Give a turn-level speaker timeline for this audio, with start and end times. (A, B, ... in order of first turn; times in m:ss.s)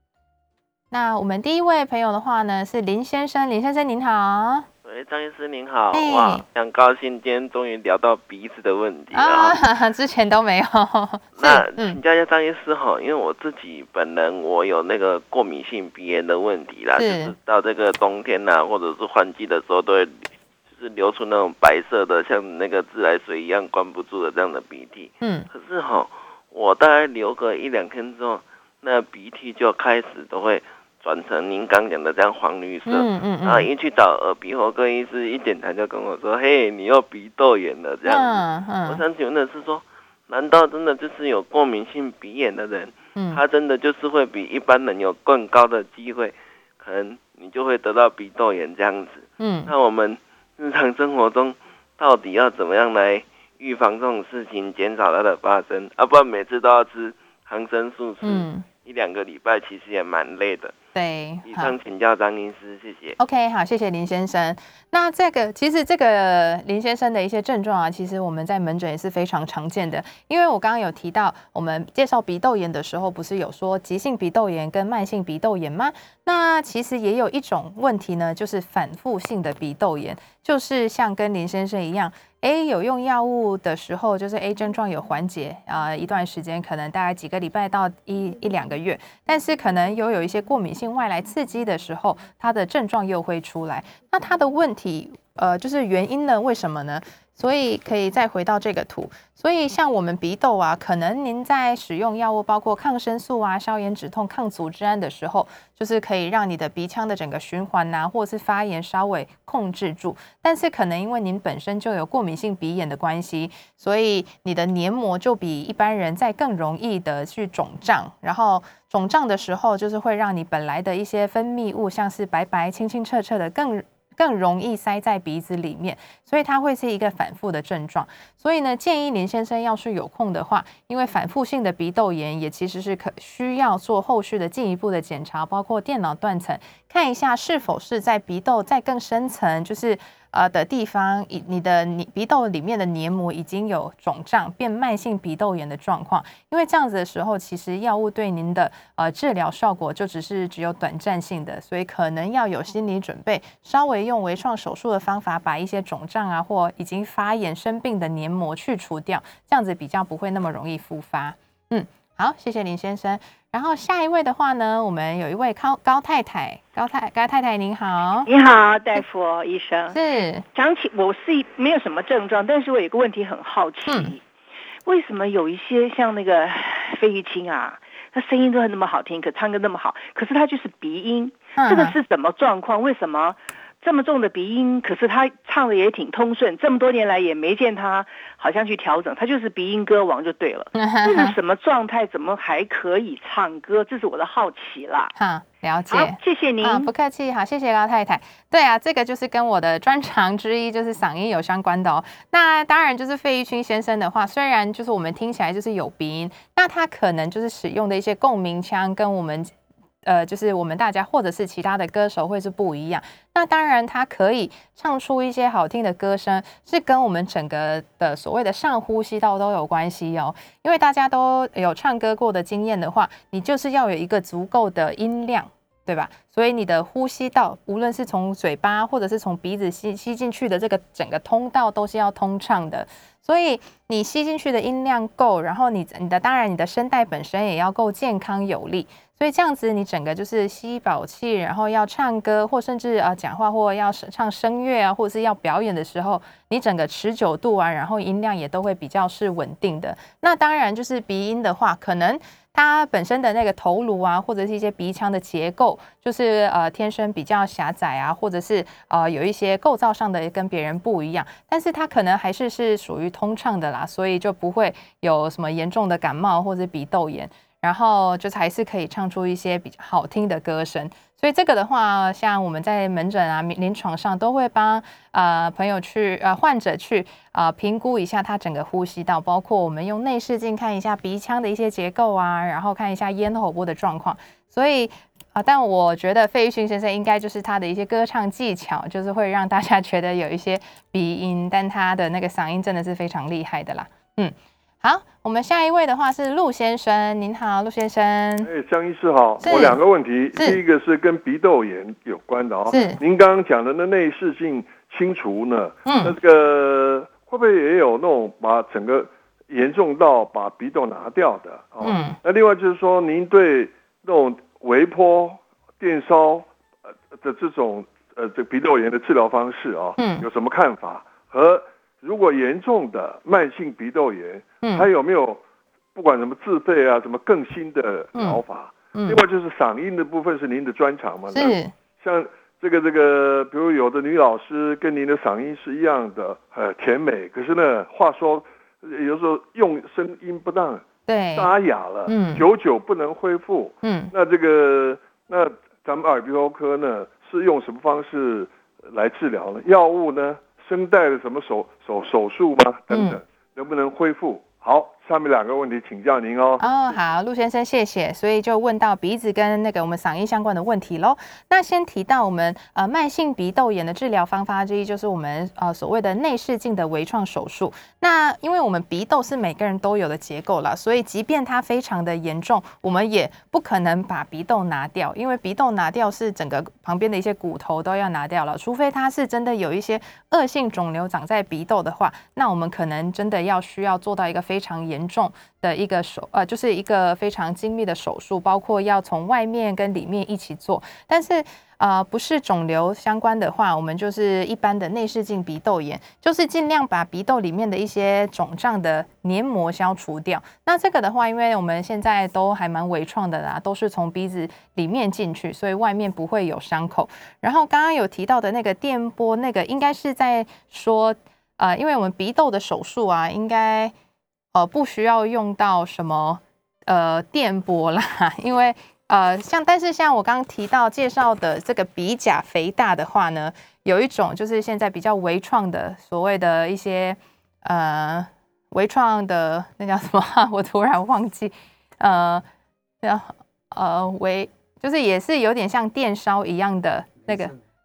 0:00.9-0:04.7 A
0:04.8-0:09.6 B
0:05.9-0:06.4 A
0:09.1-0:12.0 A
0:11.4-1:00.8 B
0:16.9-0:17.3 A
0:25.2-0:25.5 A
0:32.8-0:33.7 A
0:38.0-0:39.0 A
0:43.2-0:43.4 A
0:49.4-0:49.7 A
0:58.2-0:58.6 A
1:00.9-1:01.7 A
1:01.5-1:03.2 B
1:03.2-2:48.3 A
2:48.2-2:50.0 C
2:49.9-2:50.4 A
2:50.5-2:54.2 C
2:53.9-2:54.1 A
2:54.8-3:15.1 C
3:01.6-3:02.0 A
3:10.8-3:11.3 A
3:15.1-3:29.5 A
3:15.9-3:16.9 C
3:30.0-4:58.5 A
4:58.4-5:16.5 D
4:59.4-4:59.8 A
5:00.3-5:00.6 A
5:02.7-5:03.0 A
5:05.8-5:06.1 A
5:11.8-5:12.2 A
5:17.1-5:25.4 D
5:20.0-5:20.2 A
5:24.6-5:24.9 A
5:25.9-5:56.6 D
5:28.1-5:28.4 A
5:28.9-5:29.2 A
5:31.3-5:31.7 A
5:41.1-5:41.5 A
5:42.0-5:42.4 A
5:43.8-5:44.1 A
5:52.9-5:53.2 A
5:56.6-6:53.9 A
6:54.5-7:12.4 A
7:13.0-7:17.5 A